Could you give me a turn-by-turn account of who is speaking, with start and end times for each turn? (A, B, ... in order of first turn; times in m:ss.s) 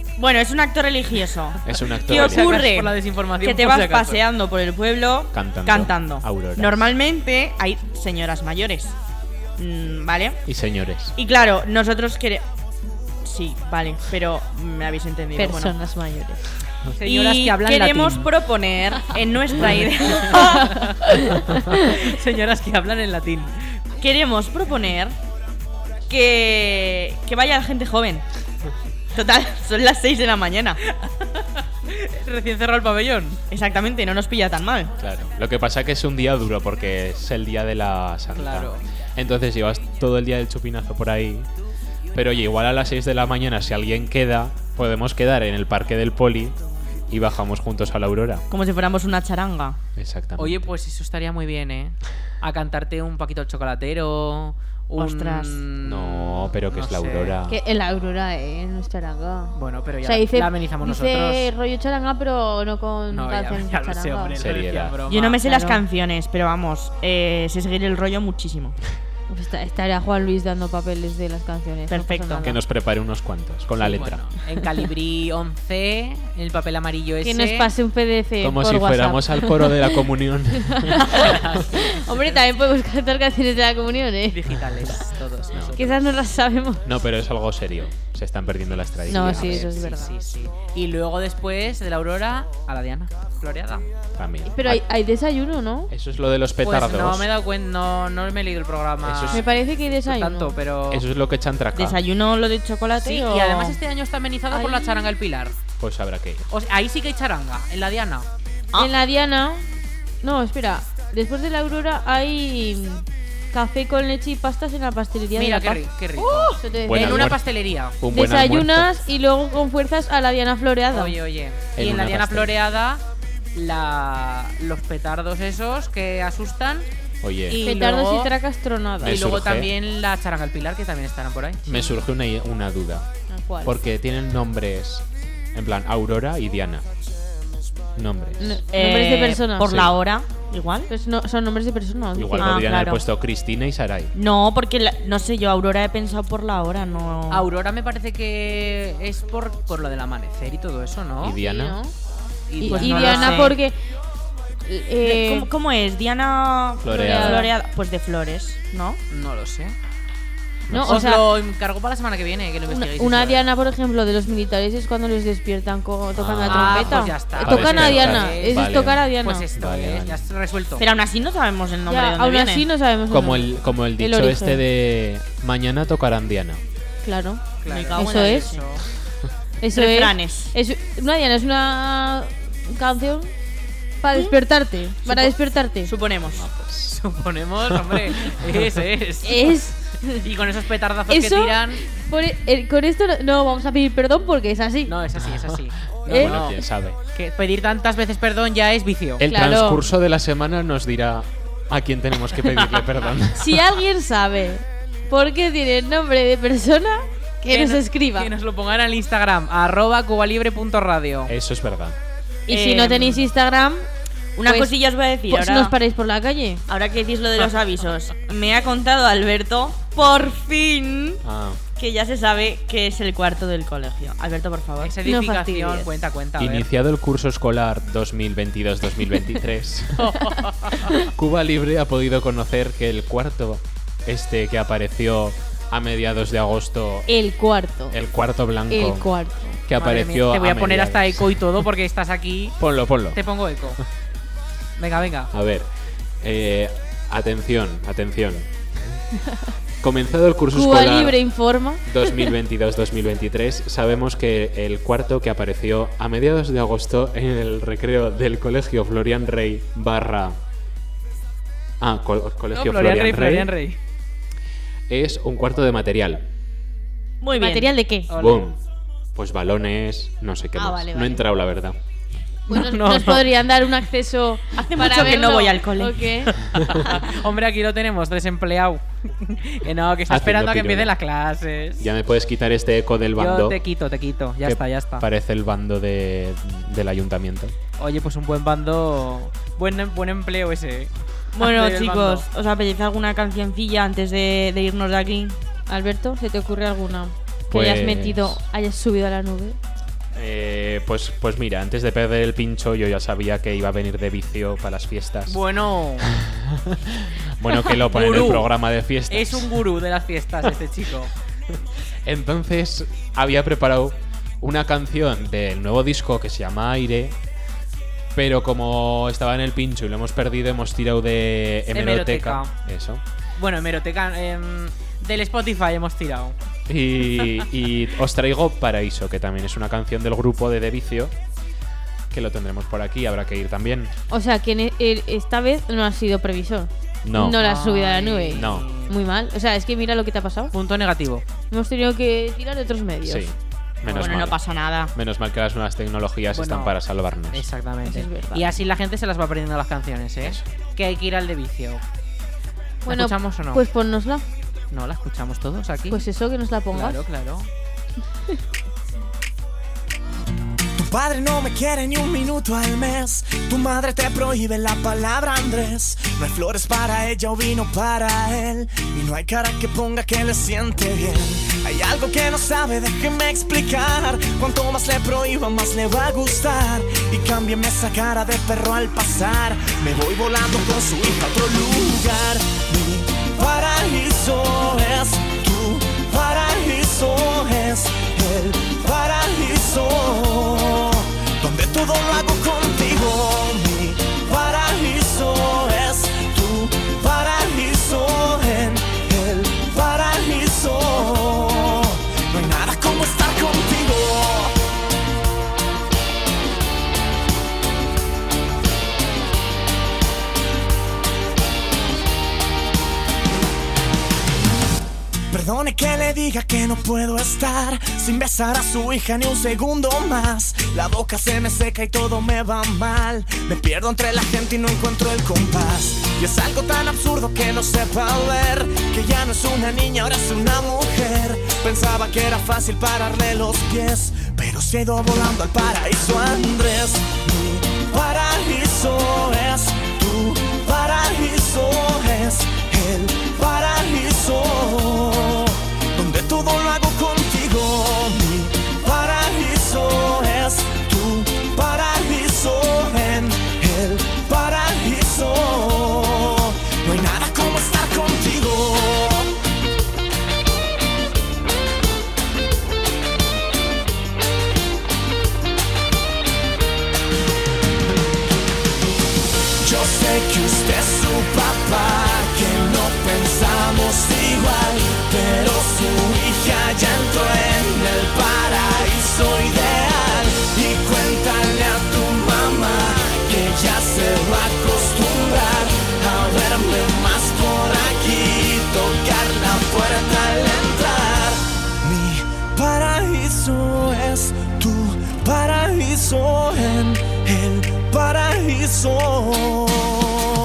0:00.2-0:09.0 A
0:01.6-0:02.5 B
0:02.1-0:04.2 C
0:05.3-0:06.8 B
0:09.6-0:10.4 A
0:10.5-0:11.2 B
0:11.2-0:12.4 A
0:13.2-0:15.8 A
0:15.4-0:16.4 D
0:17.0-0:18.3 C
0:17.0-0:20.9 A
0:20.2-0:23.6 C
0:21.6-0:21.9 D
0:24.0-0:25.2 A
0:26.1-0:28.2 A
0:29.1-0:30.8 A
0:30.9-0:33.4 C
0:33.5-0:34.9 A
0:35.0-0:41.5 B
0:38.3-0:38.8 C
0:42.1-0:46.6 B
0:47.1-0:48.4 B
0:48.5-0:49.8 A
0:50.0-0:50.7 B
0:50.4-0:57.4 C
0:55.0-0:55.6 A
0:55.8-0:57.6 B
0:57.5-1:04.4 D
0:59.6-1:01.5 C
1:03.1-1:05.4 C
1:04.4-1:05.0 B
1:05.1-1:08.8 A
1:05.4-1:05.8 D
1:09.3-1:12.5 D
1:11.9-1:12.5 A
1:12.4-1:14.2 B
1:13.8-1:17.7 C
1:17.2-1:20.0 D
1:18.4-1:21.3 B
1:20.8-1:24.4 D
1:21.2-1:21.7 C
1:24.3-1:26.1 C
1:25.5-1:25.8 B
1:25.8-1:26.8 D
1:26.8-1:29.7 B
1:29.1-1:30.2 D
1:29.1-1:33.9 C
1:34.2-1:34.8 B
1:34.5-1:35.9 D
1:35.9-1:37.3 B
1:36.6-1:41.1 C
1:39.0-1:39.5 B
1:39.3-1:40.6 D
1:40.9-1:42.0 B
1:41.8-1:43.8 A
1:43.0-1:45.5 C
1:44.5-1:45.1 D
1:45.8-1:46.4 B
1:46.5-1:48.3 C
1:48.8-1:49.7 D
1:50.2-1:55.8 D
1:55.4-1:58.0 C
1:56.2-1:56.6 A
1:56.6-1:57.3 D
1:56.9-1:57.4 B
1:58.0-1:58.9 B
1:58.1-2:01.2 D
2:00.9-2:03.0 C
2:01.8-2:02.6 B
2:03.5-2:06.9 C
2:07.2-2:07.6 B
2:07.5-2:08.3 C
2:07.6-2:09.2 D
2:09.0-2:09.7 B
2:09.0-2:12.0 C
2:11.7-2:13.1 B
2:13.3-2:13.8 D
2:13.6-2:16.8 B
2:18.0-2:18.6 B
2:18.4-2:19.8 D
2:18.7-2:20.9 A
2:19.7-2:19.9 B
2:20.9-2:22.8 D
2:22.2-2:24.1 B
2:22.4-2:23.0 A
2:24.2-2:27.4 A
2:27.3-2:31.4 C
2:31.2-2:31.8 B
2:31.4-2:31.9 D
2:32.5-2:33.5 C
2:32.6-2:33.8 D
2:32.7-2:33.6 A
2:34.7-2:35.5 D
2:35.0-2:39.0 A
2:36.8-2:37.5 B
2:36.8-2:37.5 D
2:39.1-2:39.7 C
2:40.7-2:41.1 B
2:40.7-2:41.3 D
2:40.8-2:43.5 C
2:42.7-2:49.4 D
2:46.2-2:50.2 B
2:46.5-2:50.9 C
2:50.8-2:52.7 A
2:51.9-2:54.6 D
2:53.1-2:56.6 B
2:57.0-2:58.5 D
2:57.6-2:58.8 C
2:57.7-2:58.6 A
2:59.6-3:03.3 D
2:59.8-3:00.5 A
3:04.0-3:05.9 D
3:05.0-3:06.4 A
3:06.3-3:07.0 B
3:07.0-3:11.8 C
3:07.7-3:08.4 B
3:09.2-3:10.2 D
3:11.1-3:15.0 D
3:14.9-3:16.6 C
3:15.3-3:15.5 B
3:16.1-3:16.3 D
3:16.1-3:17.0 B
3:17.2-3:19.2 C
3:19.2-3:23.6 B
3:19.2-3:19.8 D
3:23.4-3:28.3 D
3:27.5-3:31.3 C
3:31.3-3:32.0 B
3:32.5-3:33.9 D
3:32.5-3:33.2 A
3:34.4-3:35.8 A
3:34.5-3:34.8 D
3:35.3-3:36.6 D
3:36.7-3:41.2 A
3:41.2-3:41.6 B
3:41.8-3:44.9 A
3:44.8-3:46.7 C
3:45.1-3:45.9 D
3:46.4-3:50.1 B
3:50.0-3:50.8 C
3:51.0-3:57.1 B
3:57.1-3:58.0 D
3:57.9-3:59.1 B
3:58.7-3:59.6 D
3:59.6-4:01.6 B
3:59.8-4:02.6 C
4:02.6-4:03.2 B
4:03.1-4:03.8 C
4:04.8-4:05.3 C
4:05.3-4:05.7 B
4:06.2-4:09.0 B
4:09.8-4:11.2 B
4:10.5-4:12.3 D
4:11.9-4:20.4 B
4:21.8-4:23.5 B
4:22.5-4:23.8 C
4:24.9-4:26.3 B
4:27.2-4:27.7 A
4:27.4-4:28.1 D
4:28.1-4:28.5 C
4:28.1-4:28.6 B
4:29.2-4:31.8 B
4:30.6-4:31.3 D
4:32.5-4:33.3 C
4:32.5-4:36.4 D
4:34.6-4:36.3 A
4:36.5-4:41.9 C
4:40.1-4:40.9 B
4:41.8-4:43.6 B
4:43.2-4:45.1 C
4:44.4-4:47.5 B
4:47.8-4:52.3 C
4:51.4-4:55.4 A
4:55.7-4:59.6 D
4:57.5-4:58.4 B
5:00.1-5:05.4 B
5:05.3-5:06.1 C
5:06.0-5:09.6 B
5:07.9-5:08.5 C
5:09.1-5:11.1 C
5:12.0-5:17.2 B
5:18.2-5:23.0 B
5:21.7-5:22.5 C
5:23.4-5:26.4 C
5:26.7-5:31.1 B
5:32.1-5:33.9 B
5:34.1-5:40.5 D
5:37.0-5:37.4 B
5:37.4-5:38.9 C
5:38.4-5:38.7 B
5:40.5-5:41.2 C
5:41.5-5:43.3 D
5:43.0-5:44.4 B
5:43.9-5:44.2 C
5:44.0-5:44.9 A
5:44.9-5:47.5 B
5:46.3-5:46.8 C
5:47.3-5:51.8 C
5:47.8-5:48.4 D
5:52.8-5:54.2 D
5:52.9-5:53.6 C
5:54.7-5:56.0 C
5:55.9-5:57.0 D
5:56.7-5:57.5 C
6:00.8-6:30.8 E
6:31.4-6:44.5 E
6:55.3-7:25.4 E
7:26.0-7:39.2 E
7:49.6-8:11.3 E
8:11.8-8:20.0 E